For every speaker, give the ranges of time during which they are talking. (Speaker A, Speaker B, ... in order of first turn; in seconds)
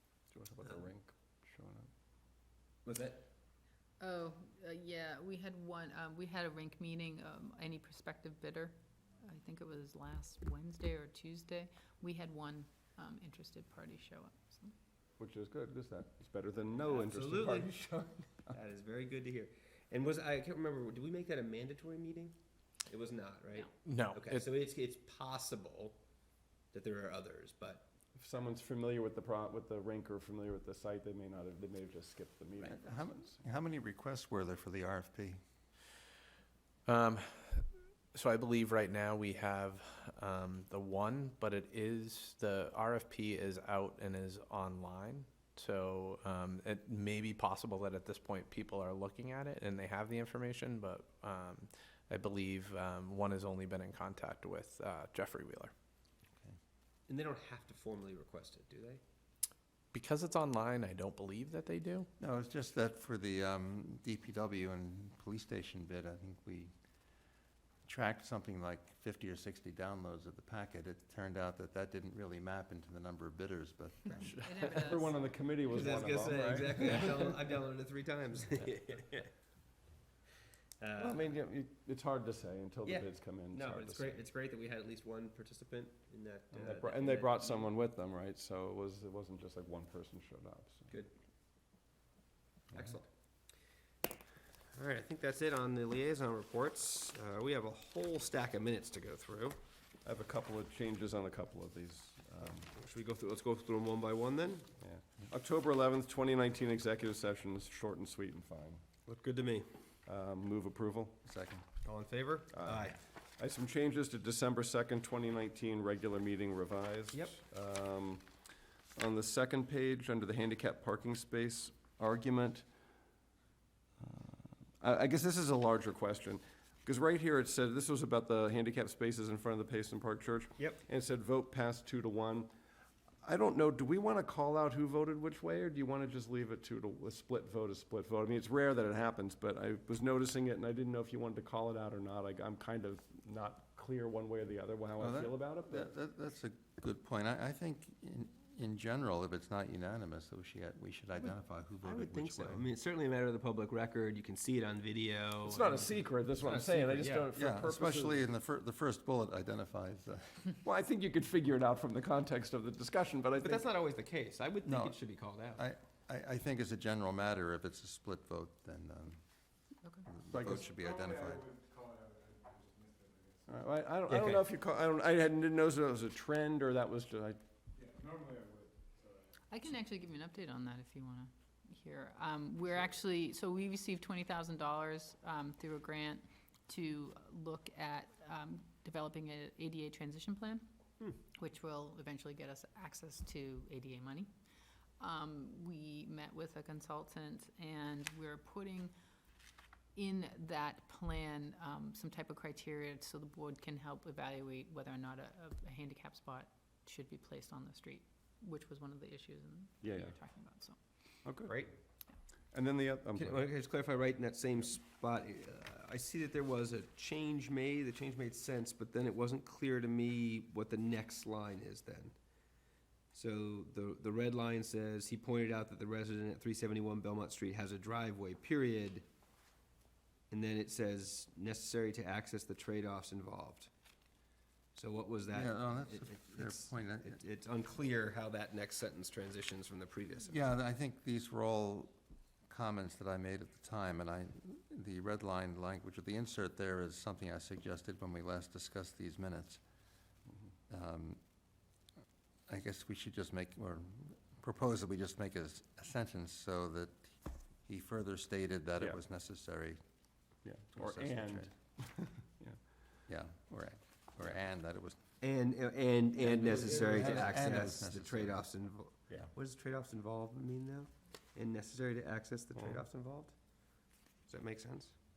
Speaker A: 0.3-1.9, 15.2-17.8, 28.1-33.4, 74.7-77.3, 81.0-84.2, 86.5-90.9, 100.0-102.7, 104.8-108.8, 110.0-111.2, 112.5-118.2, 119.0-122.7, 124.0-132.5, 133.2-145.9, 155.4-158.2, 160.6-163.7, 170.3-170.6, 173.5-177.4, 209.8-210.1, 211.2-211.5, 212.5-213.4, 250.3-250.5, 260.4-262.6, 266.4-267.6, 272.6-272.8
Speaker B: 2.8-3.3, 16.8-26.0, 26.7-27.9, 57.1-59.0, 75.7-79.3, 80.8-81.3, 82.8-87.7, 92.7-93.1, 94.7-99.6, 102.7-104.7, 109.0-109.7, 111.8-113.0, 130.6-130.8, 151.2-157.3, 163.4-165.6, 174.1-174.4, 211.4-211.8, 213.2-222.1, 223.1-229.1, 230.3-233.7, 234.8-240.4, 265.2-273.4, 274.3-274.9
Speaker C: 4.0-14.7, 74.1-75.2, 179.5-190.7, 191.4-194.3, 195.0-198.9, 199.9-210.8
Speaker D: 23.8-24.4, 36.9-55.7, 59.9-62.1
Speaker E: 32.6-35.4, 62.2-66.7, 67.9-74.7, 111.2-111.6, 145.0-152.7, 157.4-160.5, 164.7-165.0, 165.6-169.2, 170.1-171.6, 235.3-237.2, 240.3-241.9, 242.5-249.6, 250.7-251.2, 252.5-259.8, 260.8-261.5, 263.1-265.0, 266.4-268.4